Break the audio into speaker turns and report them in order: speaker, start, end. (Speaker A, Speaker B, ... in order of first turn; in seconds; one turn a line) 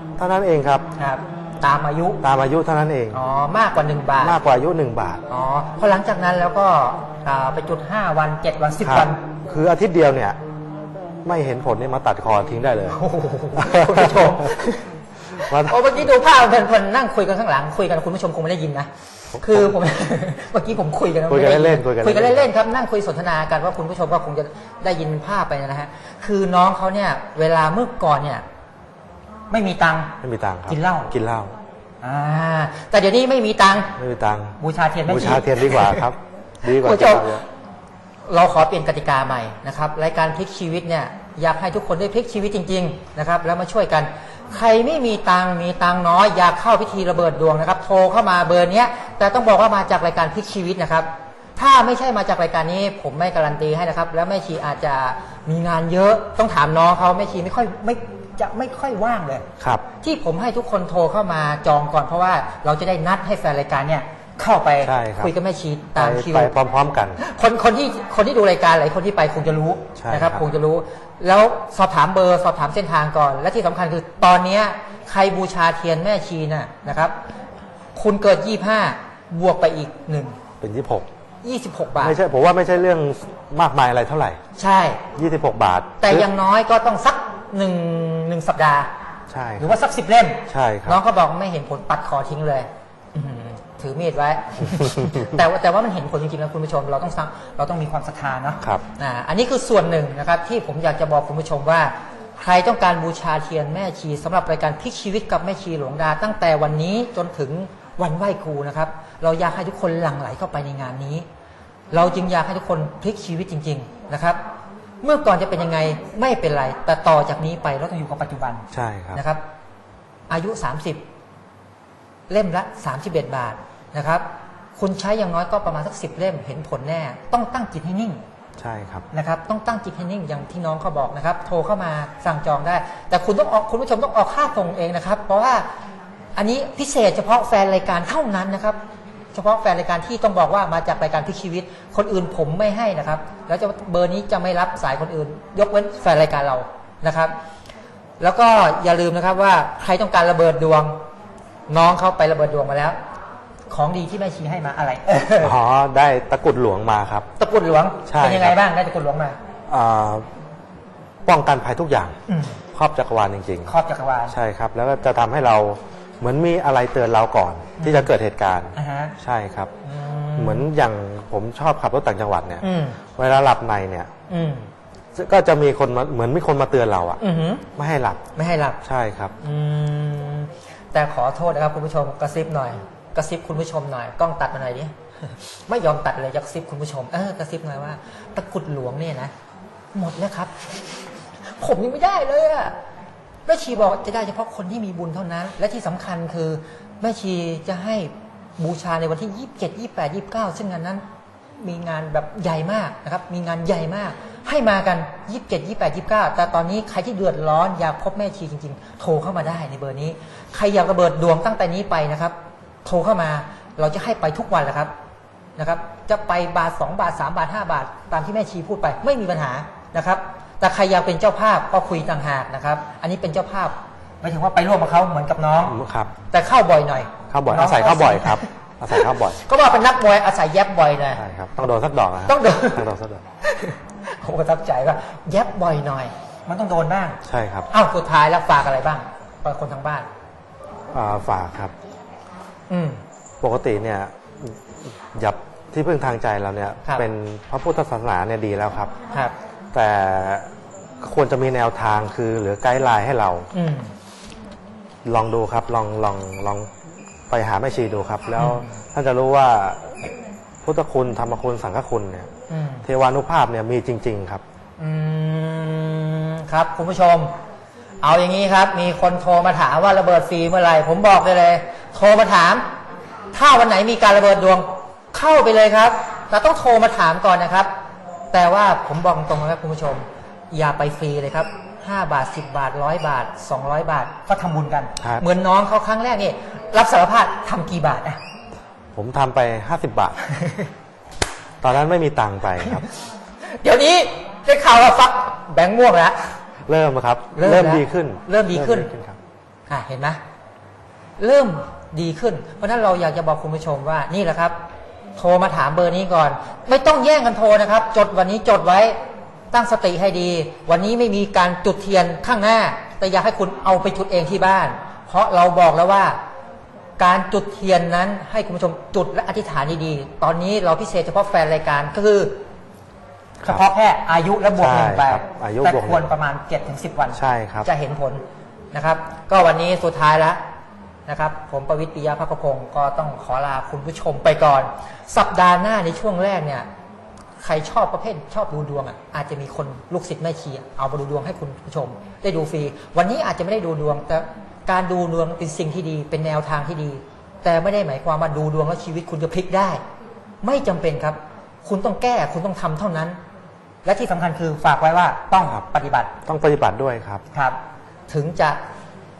Speaker A: 0.2-0.9
Speaker B: 1.0-2.2
Speaker A: 2.2-3.2
Speaker B: 3.1-4.4
Speaker A: 4.2-5.2
Speaker B: 5.3-9.2
Speaker A: 8.8-10.4
Speaker A: 11.2-14.5
Speaker B: 12.9-14.8
Speaker A: 15.4-15.9
Speaker B: 15.7-18.9
Speaker A: 19.3-19.8
Speaker B: 19.4-28.4
Speaker A: 21.3-22.5
Speaker B: 29.5-30.2
Speaker A: 30.2-31.6
Speaker B: 30.7-31.1
Speaker B: 32.0-33.9
Speaker A: 34.0-37.5
Speaker B: 34.6-36.1
Speaker B: 36.7-37.4
Speaker B: 38.3-59.5
Speaker A: 59.6-59.9
Speaker B: 60.0-66.5
Speaker A: 64.8-65.3
Speaker A: 66.0-67.2
Speaker B: 67.2-77.2
Speaker A: 70.0-70.5
Speaker B: 78.0-80.4
Speaker A: 80.6-81.1
Speaker B: 81.4-82.2
Speaker A: 82.0-84.4
Speaker B: 84.6-85.0
Speaker A: 85.2-86.3
Speaker B: 86.0-88.9
Speaker A: 89.3-89.8
Speaker B: 89.6-111.3
Speaker A: 90.5-91.0
Speaker A: 94.6-95.3
Speaker B: 111.9-114.4
Speaker B: 115.0-119.4
Speaker A: 118.7-119.2
Speaker B: 120.3-121.0
Speaker B: 122.3-128.2
Speaker A: 128.6-129.1
Speaker B: 129.1-135.7
Speaker B: 136.4-138.8
Speaker B: 139.3-147.3
Speaker B: 148.2-151.0
Speaker B: 151.7-153.0
Speaker B: 153.7-155.5
Speaker A: 155.4-157.3
Speaker B: 157.4-159.4
Speaker A: 158.1-158.6
Speaker A: 159.7-160.3
Speaker A: 161.2-162.2
Speaker B: 162.3-162.6
Speaker A: 162.7-163.7
Speaker B: 163.7-164.3
Speaker A: 164.3-169.7
Speaker B: 167.8-168.1
Speaker B: 168.8-169.2
Speaker B: 169.8-170.7
Speaker A: 170.4-172.6
Speaker B: 172.6-173.0
Speaker A: 173.2-174.1
Speaker B: 174.3-174.7
Speaker A: 175.2-177.2
Speaker B: 177.2-177.7
Speaker A: 177.8-178.2
Speaker B: 178.3-178.8
Speaker A: 178.8-179.3
Speaker B: 179.4-189.3
Speaker B: 189.9-190.5
Speaker B: 191.6-192.8
Speaker B: 193.5-201.1
Speaker B: 201.6-214.9
Speaker B: 215.6-225.8
Speaker A: 225.7-226.1
Speaker B: 226.3-231.2
Speaker A: 227.3-229.4
Speaker A: 231.2-233.2
Speaker B: 232.3-232.8
Speaker B: 233.4-237.2
Speaker A: 237.2-237.7
Speaker B: 237.7-240.1
Speaker A: 240.9-241.7
Speaker B: 242.7-243.0
Speaker A: 243.4-248.9
Speaker A: 249.7-253.5
Speaker B: 253.5-253.9
Speaker A: 255.1-256.7
Speaker A: 257.3-260.1
Speaker B: 258.4-258.8
Speaker A: 260.6-262.3
Speaker B: 262.5-262.9
Speaker A: 262.8-264.4
Speaker B: 264.8-267.3
Speaker B: 268.0-272.7
Speaker B: 273.3-277.7
Speaker B: 278.3-288.2
Speaker A: 285.0-285.3
Speaker A: 288.9-290.2
Speaker B: 290.4-290.7
Speaker A: 291.6-292.9
Speaker B: 293.6-296.2
Speaker A: 296.7-299.2
Speaker B: 297.4-298.9
Speaker B: 299.7-300.2
Speaker B: 301.2-304.6
Speaker B: 305.2-309.0
Speaker B: 309.5-316.2
Speaker B: 317.0-322.4
Speaker B: 323.4-330.4
Speaker A: 324.6-326.1
Speaker A: 327.1-327.7
Speaker B: 331.1-336.7
Speaker B: 337.4-349.8
Speaker B: 350.4-353.2
Speaker B: 353.9-356.1
Speaker A: 356.3-357.2
Speaker B: 358.1-358.6